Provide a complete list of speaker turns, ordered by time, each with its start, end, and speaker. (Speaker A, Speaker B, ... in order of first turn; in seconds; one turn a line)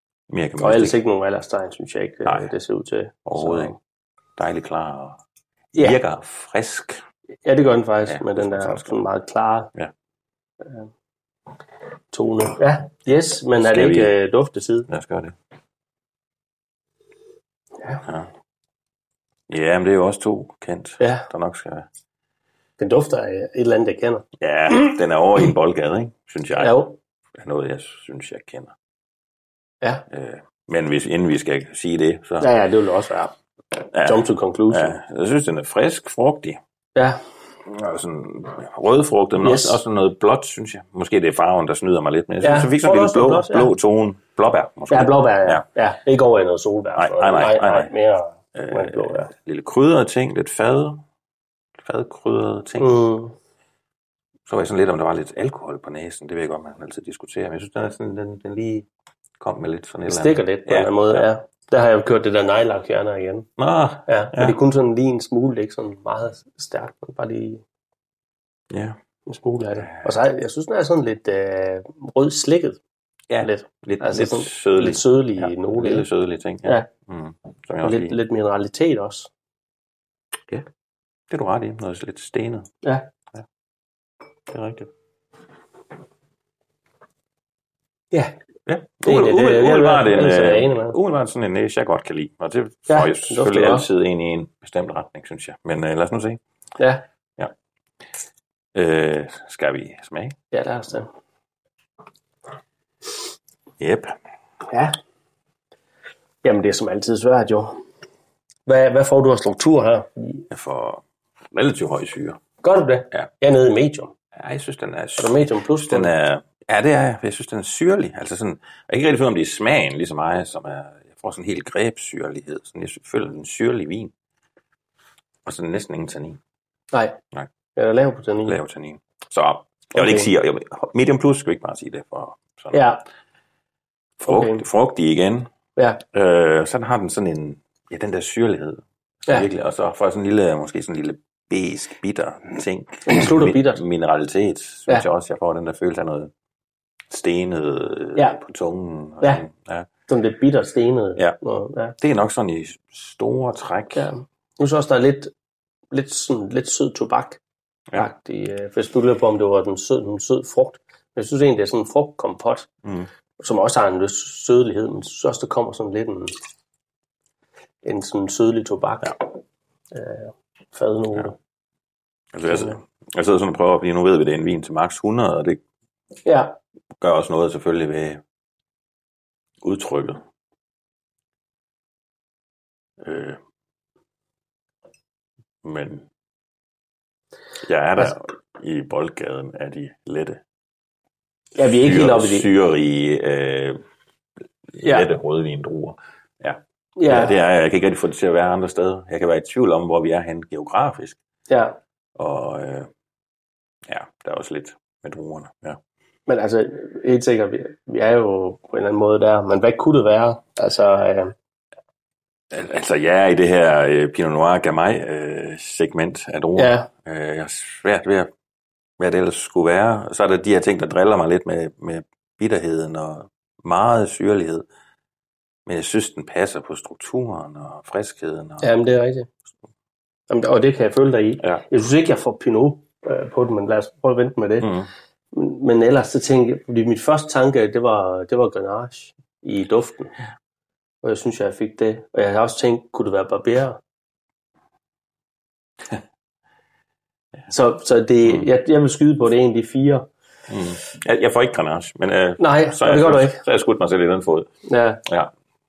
Speaker A: 0.3-0.9
Speaker B: 0.6-3.8
Speaker A: 3.2-3.7
Speaker A: 4.4-5.2
Speaker B: 5.7-6.0
Speaker A: 5.8-7.0
Speaker B: 7.4-9.7
Speaker A: 8.1-8.9
Speaker B: 10.6-10.9
Speaker B: 12.1-14.9
Speaker A: 13.6-14.1
Speaker A: 14.9-15.3
Speaker A: 19.5-21.9
Speaker B: 21.0-21.2
Speaker B: 22.8-24.9
Speaker A: 24.4-26.8
Speaker B: 26.6-26.9
Speaker A: 27.4-28.7
Speaker A: 30.1-32.5
Speaker B: 32.4-33.3
Speaker A: 33.9-36.6
Speaker B: 34.0-34.9
Speaker A: 37.7-45.6
Speaker B: 39.4-39.8
Speaker B: 42.4-43.7
Speaker B: 44.9-49.3
Speaker A: 47.0-47.9
Speaker A: 48.5-51.0
Speaker A: 51.8-53.0
Speaker B: 52.8-53.3
Speaker A: 54.5-58.9
Speaker A: 59.4-61.3
Speaker B: 60.1-63.5
Speaker A: 63.6-64.5
Speaker B: 64.1-67.6
Speaker A: 68.7-69.0
Speaker B: 69.3-72.8
Speaker A: 69.8-70.1
Speaker A: 73.3-78.2
Speaker B: 73.4-76.0
Speaker B: 77.8-79.3
Speaker A: 81.3-82.7
Speaker B: 82.8-83.1
Speaker A: 84.5-84.9
Speaker A: 88.7-96.4
Speaker B: 89.0-91.0
Speaker B: 92.9-93.9
Speaker A: 98.7-100.3
Speaker B: 100.5-101.1
Speaker A: 103.8-104.1
Speaker B: 104.7-105.0
Speaker B: 106.4-107.8
Speaker B: 108.7-110.5
Speaker A: 110.5-112.4
Speaker B: 112.6-114.1
Speaker A: 114.4-124.1
Speaker B: 115.2-116.1
Speaker A: 125.4-126.4
Speaker B: 126.9-127.2
Speaker B: 127.8-128.6
Speaker A: 128.4-132.8
Speaker B: 129.9-130.3
Speaker B: 132.7-133.0
Speaker B: 134.2-134.6
Speaker A: 134.3-135.5
Speaker A: 136.1-146.3
Speaker B: 143.0-143.8
Speaker A: 147.1-149.9
Speaker B: 150.1-151.9
Speaker A: 152.0-154.0
Speaker B: 153.9-155.3
Speaker B: 155.9-157.4
Speaker B: 157.9-162.7
Speaker A: 162.8-163.1
Speaker B: 163.4-166.3
Speaker B: 167.8-169.2
Speaker B: 169.9-171.3
Speaker A: 172.3-175.6
Speaker B: 172.5-172.8
Speaker B: 176.2-176.6
Speaker A: 177.0-178.2
Speaker A: 179.6-180.2
Speaker A: 183.0-183.4
Speaker A: 185.6-186.1
Speaker A: 187.6-190.4
Speaker B: 191.5-192.5
Speaker A: 191.8-193.8
Speaker A: 194.7-201.2
Speaker B: 194.8-195.1
Speaker B: 197.0-197.3
Speaker B: 201.5-201.8
Speaker A: 202.2-202.9
Speaker A: 203.9-205.8
Speaker B: 206.3-211.3
Speaker A: 212.5-218.3
Speaker B: 216.6-216.9
Speaker A: 219.0-224.7
Speaker A: 225.7-228.7
Speaker B: 228.6-229.3
Speaker B: 230.3-234.7
Speaker A: 234.6-234.9
Speaker B: 235.3-240.1
Speaker B: 241.0-243.8
Speaker B: 247.5-250.1
Speaker A: 250.5-254.5
Speaker B: 252.4-253.4
Speaker B: 254.7-255.0